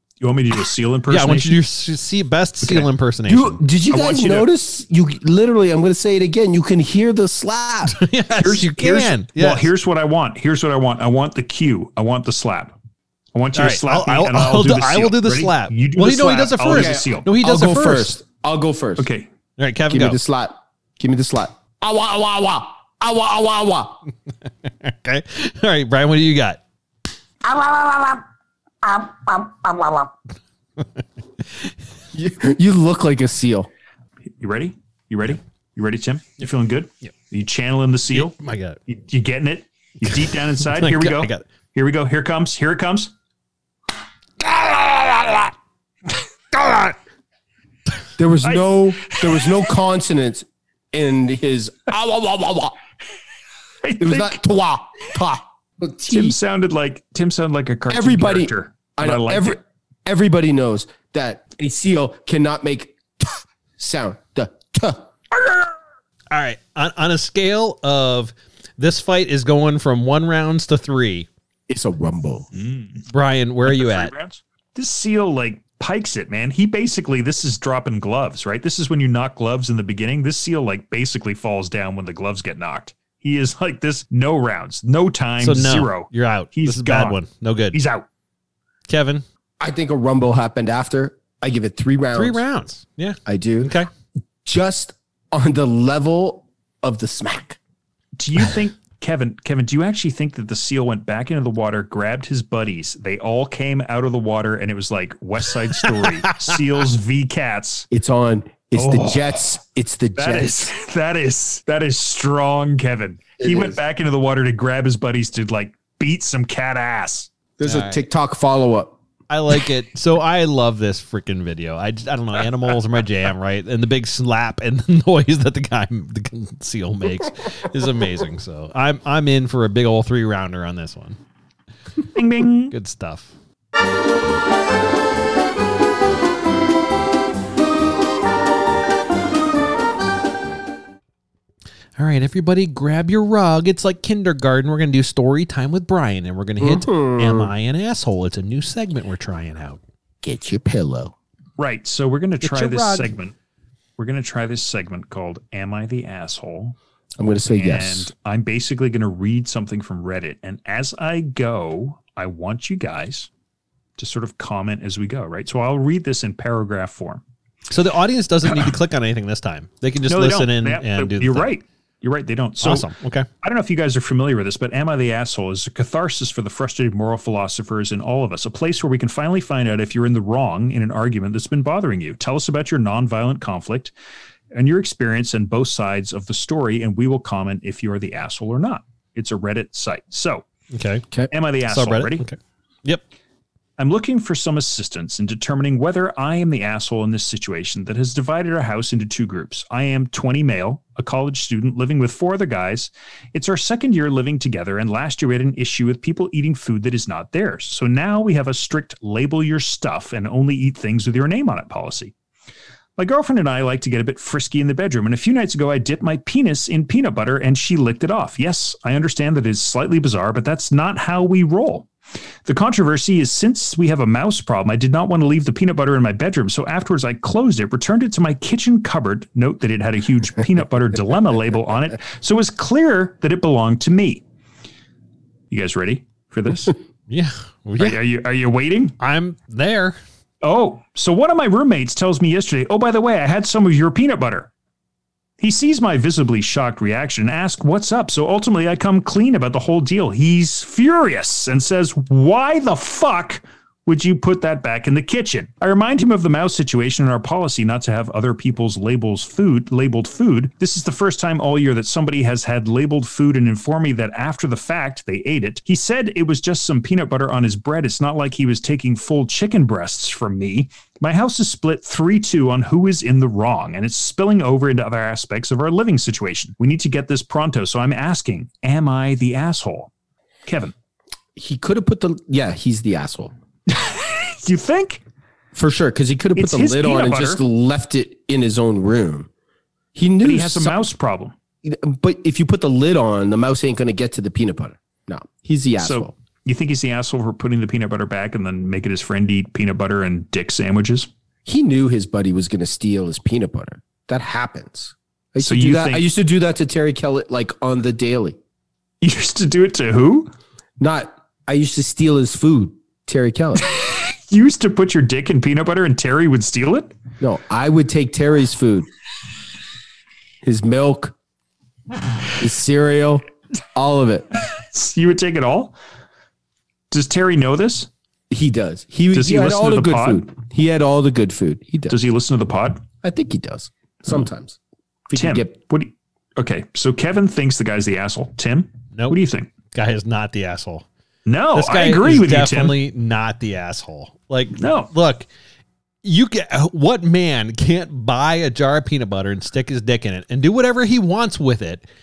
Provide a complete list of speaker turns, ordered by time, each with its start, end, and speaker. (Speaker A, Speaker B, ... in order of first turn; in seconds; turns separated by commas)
Speaker A: 0.2-1.6, Speaker B: 1.1-3.6, Speaker C: 3.3-8.0, Speaker A: 3.9-4.5, Speaker B: 7.9-9.7, Speaker A: 8.4-12.7, Speaker A: 13.3-17.3, Speaker B: 13.6-18.2, Speaker C: 16.7-19.1, Speaker A: 19.0-19.3, Speaker B: 19.6-20.2, Speaker C: 19.9-24.0, Speaker B: 24.6-26.6, Speaker C: 27.4-28.2, Speaker C: 28.8-30.1, Speaker B: 30.8-31.0, Speaker C: 32.1-33.7, Speaker A: 34.4-38.3, Speaker B: 38.1-38.8, Speaker A: 38.9-43.1, Speaker B: 40.0-41.5, Speaker B: 44.4-45.5, Speaker B: 46.5-47.0, Speaker C: 48.2-52.8, Speaker A: 48.4-49.6, Speaker A: 53.8-54.4, Speaker C: 54.0-56.4, Speaker A: 56.1-59.6, Speaker C: 57.9-65.1, Speaker B: 66.3-71.3, Speaker C: 71.7-72.5, Speaker A: 72.5-73.0, Speaker B: 73.1-74.1, Speaker A: 73.7-87.2, Speaker B: 85.4-87.8, Speaker A: 87.7-88.0, Speaker B: 88.9-89.2, Speaker C: 89.6-92.4, Speaker B: 92.1-93.9, Speaker C: 93.3-93.7, Speaker C: 94.5-97.6, Speaker A: 98.2-107.9, Speaker B: 105.8-106.5, Speaker C: 107.9-110.7, Speaker A: 108.8-109.5, Speaker A: 110.2-117.3, Speaker C: 113.4-113.8, Speaker C: 117.6-119.0, Speaker B: 117.6-118.0, Speaker B: 119.3-131.2, Speaker A: 132.2-132.7, Speaker B: 132.7-133.3, Speaker B: 142.0-149.8, Speaker C: 146.6-147.5, Speaker C: 150.2-151.1, Speaker A: 151.6-153.3, Speaker B: 152.4-153.1, Speaker A: 154.0-156.8, Speaker C: 157.2-158.1, Speaker A: 157.5-163.3, Speaker A: 164.0-167.2, Speaker B: 167.7-171.5, Speaker A: 170.1-172.9, Speaker B: 172.6-173.3, Speaker A: 173.4-183.9, Speaker A: 184.5-190.4, Speaker B: 190.7-191.1, Speaker A: 191.3-192.2, Speaker B: 191.7-193.0, Speaker A: 193.8-212.1, Speaker A: 213.0-221.9, Speaker A: 222.5-234.2, Speaker A: 235.5-236.8, Speaker B: 237.1-238.0, Speaker A: 237.8-239.0, Speaker B: 239.0-240.0, Speaker A: 240.4-244.5, Speaker A: 245.4-279.9, Speaker A: 280.5-280.7, Speaker C: 281.4-283.3, Speaker A: 283.7-285.0, Speaker C: 285.5-289.3, Speaker A: 286.4-287.4, Speaker C: 289.9-290.8, Speaker A: 290.2-291.4, Speaker C: 291.6-296.1, Speaker A: 295.8-301.1, Speaker C: 301.5-308.4, Speaker A: 305.4-306.0, Speaker A: 309.0-310.3, Speaker C: 310.8-313.7, Speaker A: 313.6-316.9, Speaker C: 317.2-318.9, Speaker C: 320.4-321.1, Speaker C: 322.4-323.2, Speaker C: 323.8-324.3, Speaker A: 324.5-325.7, Speaker A: 326.9-327.9, Speaker C: 328.3-332.0, Speaker A: 329.1-330.3, Speaker A: 331.9-332.8, Speaker C: 333.0-334.6, Speaker C: 335.1-335.6, Speaker A: 335.1-339.5, Speaker B: 339.7-340.9, Speaker A: 341.3-342.8, Speaker B: 341.5-345.3, Speaker A: 344.6-344.9, Speaker B: 346.0-351.8